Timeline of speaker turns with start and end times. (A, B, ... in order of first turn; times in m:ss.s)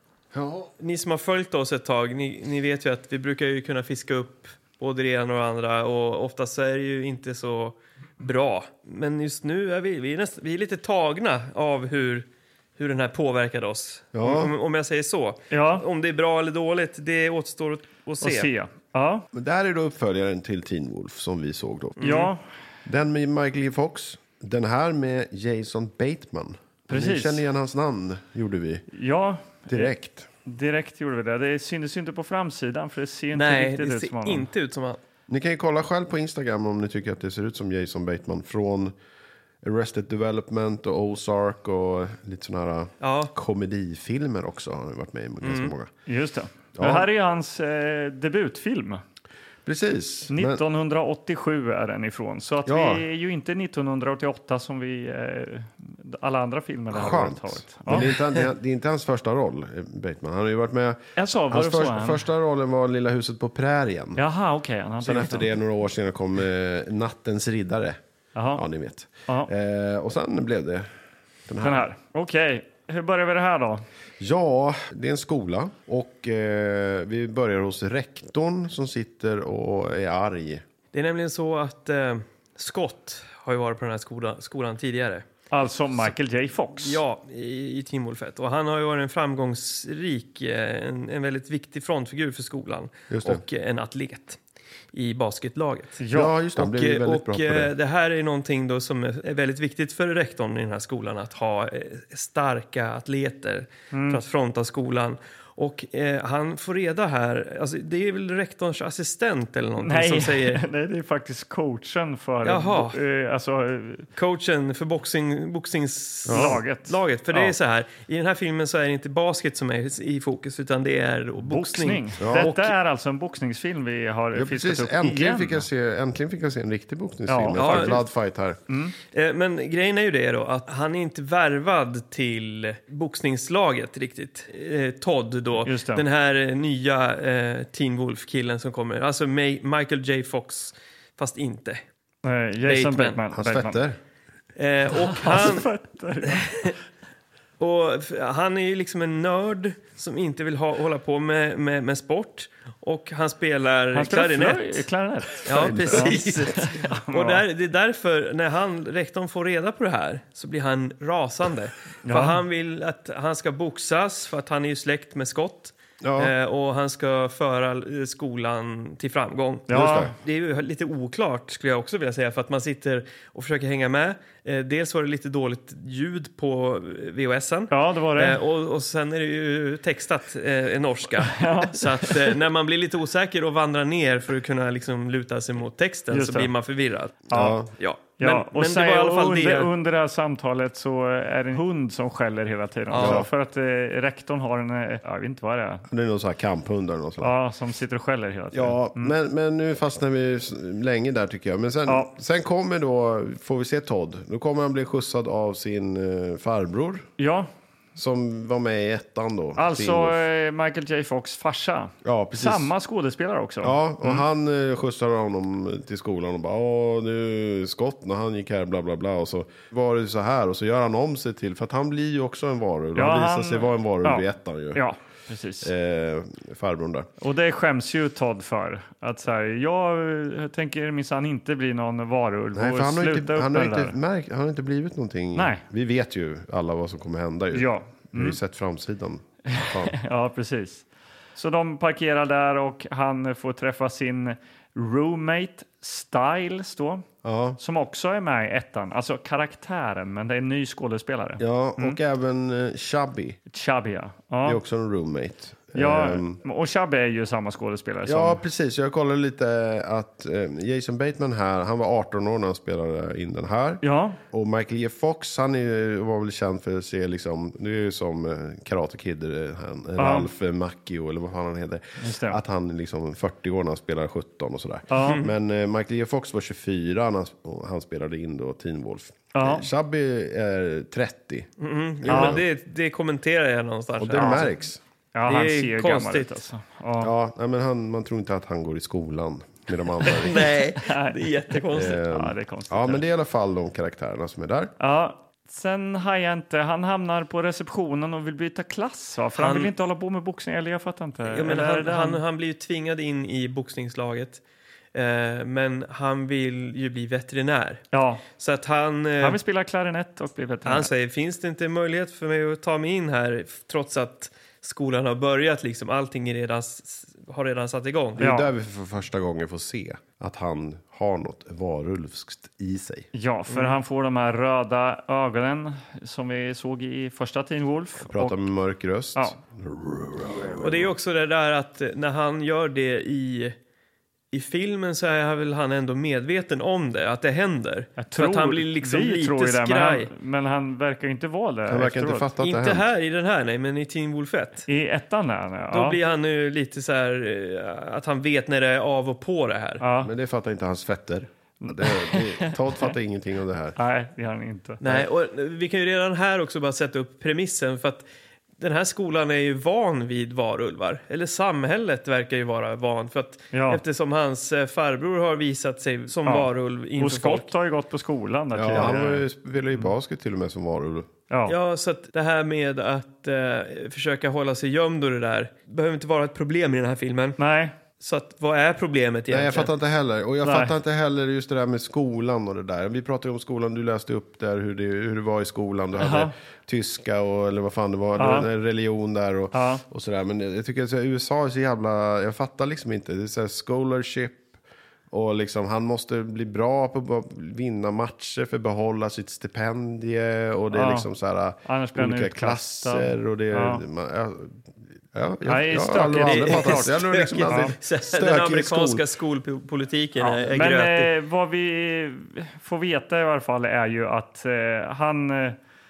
0:00.3-0:00.7 A
0:00.8-0:18.5 B
0:14.1-0:14.5 A
0:15.5-0:15.8 C
0:18.2-0:19.3 C
0:19.3-0:22.1 A
0:22.0-0:22.3 B
0:22.0-0:22.4 C
0:22.9-0:28.9 A
0:26.9-0:27.4 C
0:28.9-0:29.9 C
0:29.7-0:30.3 A
0:30.5-0:34.5 C
0:33.3-0:35.0 B
0:35.3-0:38.9 A
0:39.6-0:45.9 A
0:43.0-0:43.3 B
0:45.4-0:45.7 B
0:46.1-0:49.0 C
0:46.8-0:47.1 A
0:49.6-0:50.6 A
0:50.3-0:58.2 C
0:52.6-0:53.0 A
0:56.9-1:04.2 A
1:01.2-1:02.2 C
1:04.2-1:05.5 C
1:05.0-1:08.0 A
1:08.4-1:08.6 C
1:08.5-1:10.9 A
1:11.5-1:11.9 A
1:11.6-1:13.8 C
1:14.2-1:20.6 A
1:20.9-1:25.3 B
1:25.5-1:27.0 C
1:26.8-1:34.4 B
1:33.1-1:33.4 A
1:34.9-1:36.0 B
1:36.0-1:36.3 C
1:36.1-1:37.7 A
1:36.6-1:50.6 B
1:43.9-1:44.2 C
1:49.8-1:54.1 C
1:52.4-1:53.0 B
1:54.2-2:02.7 B
1:56.3-1:56.6 A
1:56.3-1:57.6 C
2:01.4-2:05.6 C
2:02.2-2:02.5 A
2:04.3-2:08.6 A
2:07.3-2:08.0 C
2:07.6-2:08.0 B
2:08.7-2:09.0 C
2:09.1-2:21.8 B
2:15.6-2:16.0 C
2:22.2-2:23.8 C
2:22.6-2:23.2 B
2:23.3-2:24.0 A
2:24.6-2:25.7 B
2:24.9-2:26.8 C
2:26.3-2:26.8 B
2:27.6-2:34.9 B
2:33.9-2:37.4 C
2:35.4-3:09.7 B
2:35.5-2:36.4 A
2:42.0-2:42.4 C
2:46.0-2:46.3 A
2:49.7-2:50.1 C
2:49.7-2:50.1 A
2:57.7-2:58.4 C
3:01.3-3:02.2 C
3:06.1-3:06.5 C
3:07.3-3:07.6 C
3:07.3-3:07.7 A
3:08.2-3:15.9 C
3:12.9-3:13.3 B
3:13.0-3:13.3 A
3:15.9-3:17.3 A
3:17.2-3:19.1 C
3:18.5-3:27.1 A
3:27.2-3:27.5 C
3:28.0-3:30.2 A
3:29.6-3:34.2 C
3:32.0-3:32.7 A
3:33.6-3:44.8 A
3:43.0-3:45.7 C
3:45.6-3:47.1 A
3:47.2-3:54.0 C
3:52.6-3:59.9 A
3:55.4-3:55.6 C
3:57.5-3:58.4 C
3:59.5-4:07.1 C
4:07.2-4:07.6 A
4:07.6-4:12.0 C
4:11.4-4:13.4 A
4:13.5-4:14.6 C
4:14.4-4:16.4 A
4:15.8-4:18.4 C
4:18.1-4:41.5 A
4:23.8-4:24.2 C
4:30.0-4:30.3 C
4:32.0-4:32.4 C
4:34.9-4:35.2 C
4:35.0-4:35.3 B
4:39.4-4:39.7 C
4:41.6-4:44.5 B
4:42.0-4:42.4 A
4:42.1-4:42.4 C
4:44.0-4:44.8 A
4:44.2-4:44.5 C
4:45.1-4:47.1 C
4:45.3-4:46.4 B
4:47.0-4:50.5 A
4:50.1-4:52.0 B
4:50.4-4:53.0 C
4:51.7-4:54.7 A
4:54.8-5:02.2 C
4:59.4-4:59.7 B
5:01.2-5:04.4 B
5:04.9-5:09.4 B
5:07.9-5:08.2 C
5:09.2-5:10.9 C
5:10.6-5:18.3 B
5:18.2-5:23.1 A
5:18.2-5:18.5 C
5:23.1-5:28.4 C
5:28.1-5:30.9 A
5:30.6-5:33.6 B
5:34.3-5:40.1 B
5:38.0-5:42.3 C
5:41.7-5:42.9 A
5:42.4-5:44.7 B
5:44.7-5:46.0 C
5:45.7-5:49.8 B
5:49.8-5:50.1 C
5:50.0-5:53.8 A
5:51.6-5:52.9 C
5:53.8-5:54.8 C
5:54.8-5:58.1 B
5:58.6-6:07.5 B
6:03.5-6:03.8 C
6:06.3-6:09.3 C
6:08.5-6:11.1 A
6:11.3-6:11.6 C
6:11.5-6:17.4 B
6:17.4-6:17.8 C
6:18.0-6:19.7 B
6:19.3-6:34.6 A
6:20.4-6:20.8 C
6:26.0-6:26.3 C
6:28.2-6:28.5 C
6:29.5-6:29.8 C
6:35.1-6:49.0 A
6:40.7-6:41.1 C
6:41.6-6:43.8 C
6:45.4-6:46.9 C
6:46.1-6:51.1 B
6:47.5-6:47.8 C
6:50.2-6:55.6 C